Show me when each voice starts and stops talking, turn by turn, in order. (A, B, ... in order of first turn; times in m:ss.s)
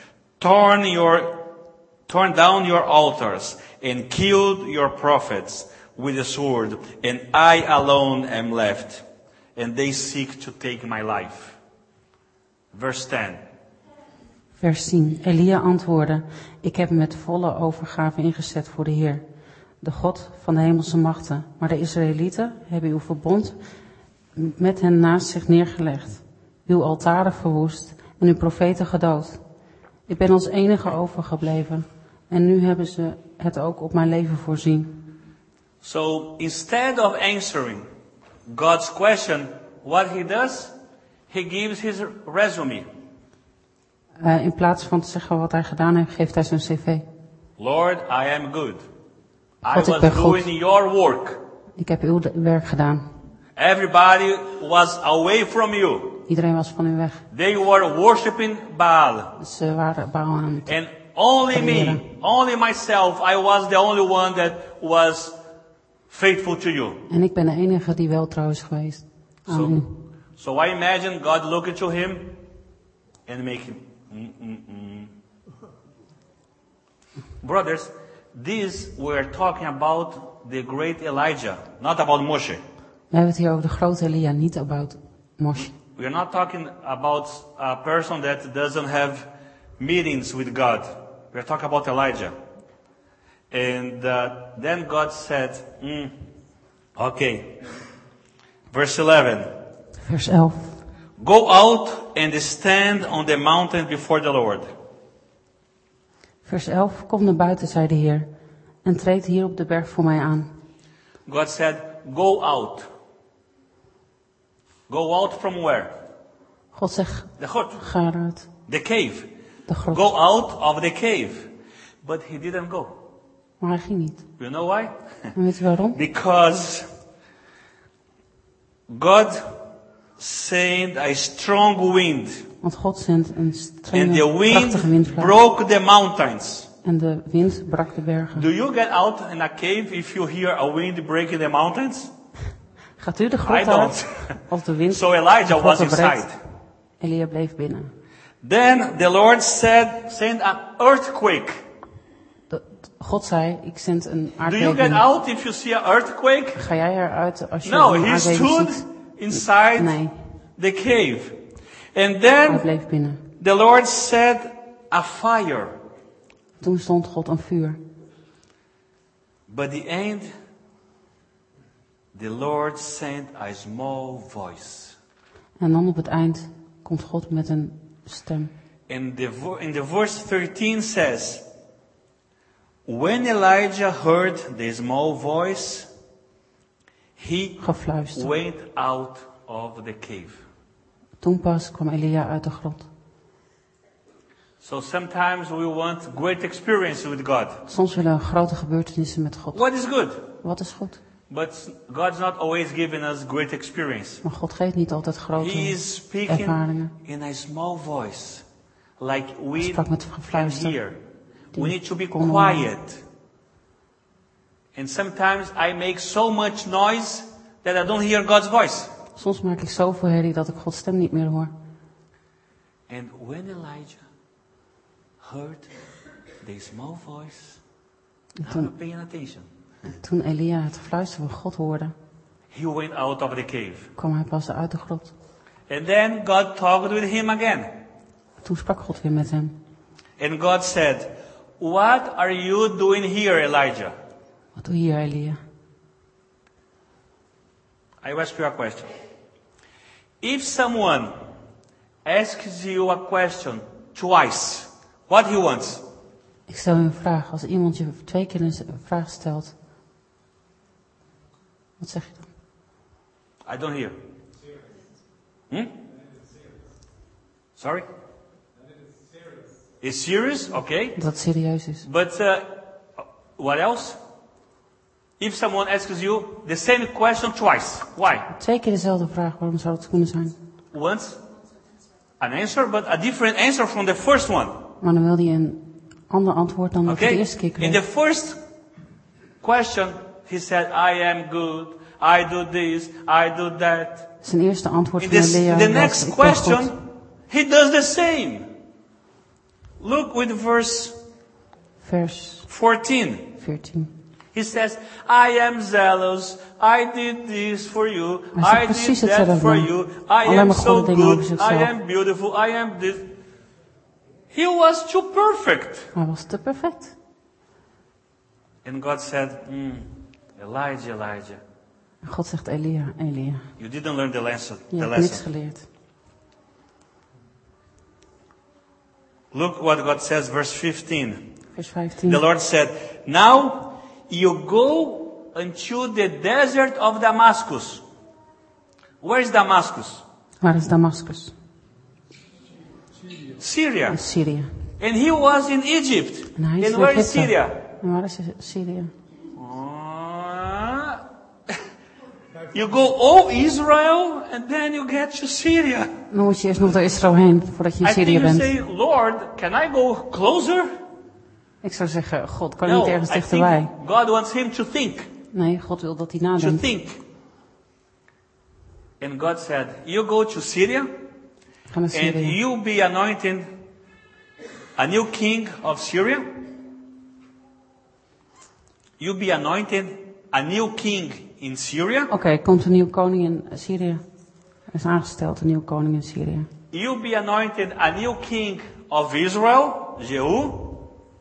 0:00.4-0:01.3 A
0:02.1-0:09.0 A
0:09.6-0:11.6 A
0:12.7-0:13.4 A
0:14.6-0:19.2 B
0:19.8-0:23.6 B
0:24.4-0:29.4 B
0:30.1-0:35.0 B
0:35.8-0:37.9 A
0:38.5-0:40.7 A
0:41.3-0:42.9 A
0:44.2-0:47.0 B
0:47.6-0:48.8 A
0:49.6-0:51.4 A
0:49.7-0:50.5 B
0:51.8-0:53.1 B
0:53.6-0:56.2 A
0:56.3-0:57.2 B
0:57.3-0:59.3 A
0:59.4-1:00.7 B
1:00.7-1:05.4 A
1:01.5-1:02.0 B
1:06.1-1:07.0 A
1:07.1-1:09.9 B
1:09.5-1:09.8 A
1:10.4-1:12.3 A
1:13.3-1:15.1 A
1:17.4-1:22.6 A
1:23.1-1:25.7 B
1:25.6-1:29.3 A
1:29.8-1:32.4 A
1:33.5-1:36.1 A
1:37.0-1:37.6 A
1:38.7-1:39.5 A
1:40.0-1:40.8 B
1:41.2-1:44.7 A
1:46.4-1:48.3 B
1:48.8-1:50.5 B
1:51.2-1:52.9 A
1:54.9-1:55.9 A
1:56.7-1:58.5 B
1:57.4-1:57.8 A
1:58.7-1:59.3 A
1:59.7-2:00.0 B
1:59.9-2:01.5 A
2:02.0-2:03.0 A
2:03.6-2:04.2 B
2:04.4-2:05.3 A
2:05.3-2:06.0 B
2:05.9-2:06.9 A
2:08.9-2:09.6 A
2:10.2-2:12.4 A
2:12.6-2:15.4 B
2:13.9-2:16.7 A
2:16.8-2:18.5 B
2:18.3-2:22.1 A
2:23.0-2:26.3 B
2:23.4-2:26.4 A
2:27.0-2:27.9 B
2:28.4-2:31.6 A
2:32.5-2:35.0 B
2:34.4-2:36.6 A
2:36.6-2:40.1 B
2:37.6-2:40.0 A
2:40.6-2:41.4 A
2:41.9-2:42.6 A
2:42.5-2:43.2 B
2:43.4-2:45.7 A
2:46.6-2:47.8 B
2:49.5-2:50.3 A
2:52.1-2:55.0 A
2:55.6-2:58.5 B
2:58.9-3:01.4 A
3:02.8-3:05.9 A
3:07.2-3:07.6 A
3:07.6-3:08.3 B
3:08.1-3:10.4 A
3:11.2-3:12.9 B
3:14.6-3:17.6 A
3:17.7-3:19.6 B
3:19.5-3:20.2 A
3:20.4-3:21.0 B
3:21.3-3:24.2 A
3:24.2-3:26.9 B
3:25.4-3:28.4 A
3:29.0-3:31.0 A
3:29.6-3:30.8 B
3:31.5-3:32.7 B
3:31.5-3:33.0 A
3:34.7-3:38.9 A
3:39.2-3:41.5 B
3:42.9-3:44.0 A
3:45.2-3:45.7 A
3:46.4-3:47.6 A
3:48.4-3:48.7 B
3:48.4-3:49.5 A
3:49.8-3:51.9 B
3:52.5-3:53.9 A
3:54.0-3:55.1 B
3:55.7-3:57.7 A
3:58.4-3:59.6 B
4:00.2-4:03.9 A
4:04.6-4:05.4 B
4:08.0-4:08.9 A
4:10.2-4:11.2 A
4:12.0-4:15.8 A
4:16.5-4:19.5 B
4:21.8-4:22.2 B
4:23.4-4:24.0 A
4:27.6-4:27.8 A
4:29.8-4:31.0 A
4:31.0-4:31.8 B
4:31.8-4:32.5 A
4:33.4-4:34.0 A
4:35.2-4:38.3 A
4:38.3-4:40.4 B
4:40.7-4:41.2 A
4:42.2-4:44.6 A
4:44.8-4:47.8 B
4:46.8-4:48.4 A
4:49.4-4:54.1 A
4:54.2-4:56.7 B
4:55.0-4:56.8 A
4:57.3-4:58.5 A
4:59.8-5:01.0 A
5:01.8-5:02.5 B
5:02.5-5:03.3 A
5:03.4-5:03.9 B
5:04.3-5:13.0 A
5:08.3-5:09.7 B
5:10.2-5:11.7 B
5:14.3-5:15.9 A
5:15.9-5:16.9 B
5:18.6-5:21.4 A
5:22.0-5:23.4 B
5:23.6-5:25.2 A
5:24.7-5:25.6 B
5:29.3-5:31.2 A
5:31.5-5:32.2 B
5:32.0-5:37.8 A
5:39.0-5:40.0 A
5:40.4-5:41.3 B
5:43.4-5:44.0 A
5:43.9-5:44.5 B
5:44.8-5:47.6 A
5:46.4-5:48.9 B
5:49.4-5:51.0 A
5:52.5-5:55.9 A
5:56.1-5:58.5 B
5:57.8-6:00.7 A
6:01.6-6:03.7 B
6:02.6-6:05.1 A
6:05.3-6:06.7 B
6:06.4-6:07.0 A
6:09.0-6:10.9 A
6:11.7-6:12.4 B
6:11.9-6:13.5 A
6:14.8-6:16.3 A
6:19.0-6:22.1 A
6:22.1-6:24.0 B
6:24.7-6:26.5 B
6:26.7-6:30.7 A